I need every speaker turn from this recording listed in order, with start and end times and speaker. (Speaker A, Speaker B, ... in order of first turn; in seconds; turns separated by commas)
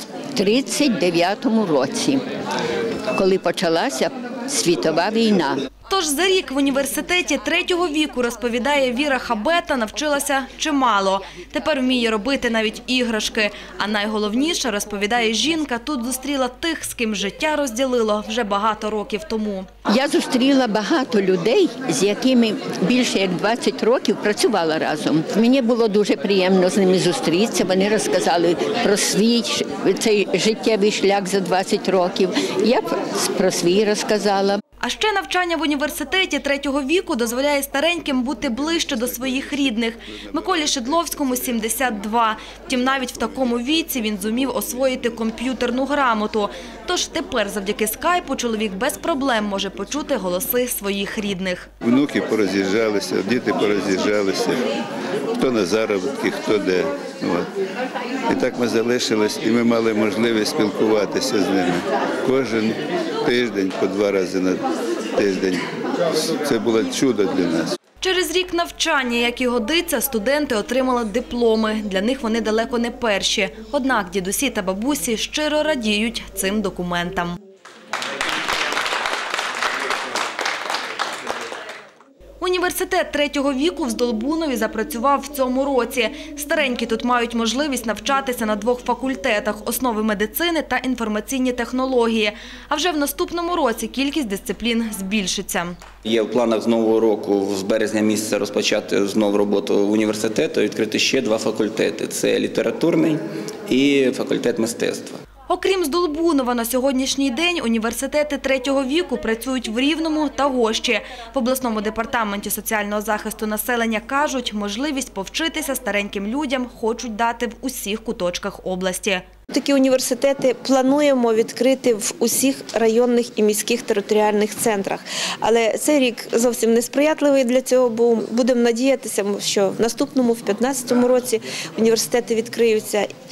Speaker A: 0.3-2.2, Speaker A: 3.1-5.6, Speaker B: 5.9-19.7, Speaker A: 19.9-34.6, Speaker B: 34.8-51.7, Speaker C: 51.8-54.6, Speaker C: 55.4-57.5, Speaker C: 58.3-64.7, Speaker C: 65.2-65.7, Speaker C: 66.2-67.8, Speaker B: 68.0-77.4, Speaker B: 82.4-95.8, Speaker D: 96.0-105.2, Speaker B: 105.5-119.3, Speaker E: 119.5-133.1